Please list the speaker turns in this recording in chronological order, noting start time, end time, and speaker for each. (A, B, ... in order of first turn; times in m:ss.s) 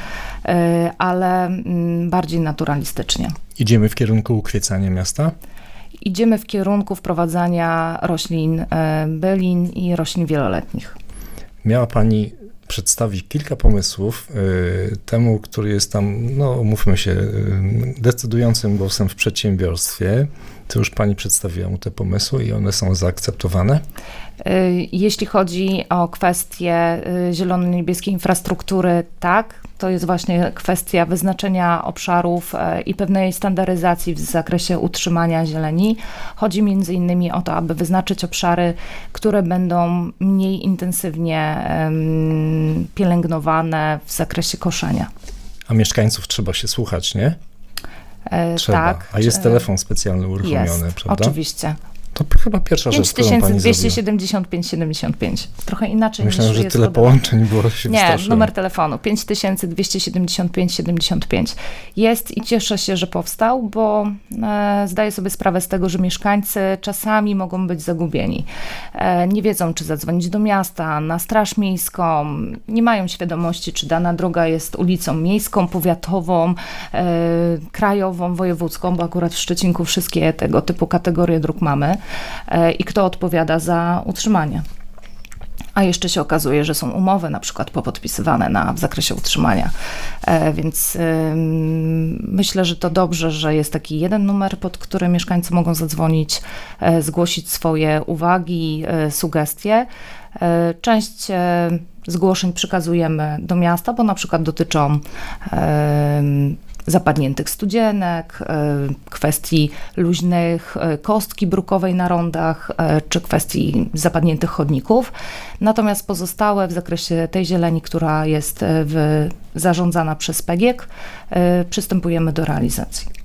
0:00.4-0:03.3 A
0:03.6-0:05.3 B
0:06.0-0:11.0 A
0:11.6-0:23.8 B
0:24.4-0:45.1 A
0:45.7-0:47.4 B
0:48.2-0:49.7 A
0:48.6-0:51.4 B
0:50.4-0:51.8 A
0:52.1-0:54.0 B
0:52.9-0:57.3 A
0:56.2-0:58.5 B
0:57.8-1:24.6 A
1:25.7-1:29.7 A
1:30.2-2:03.1 A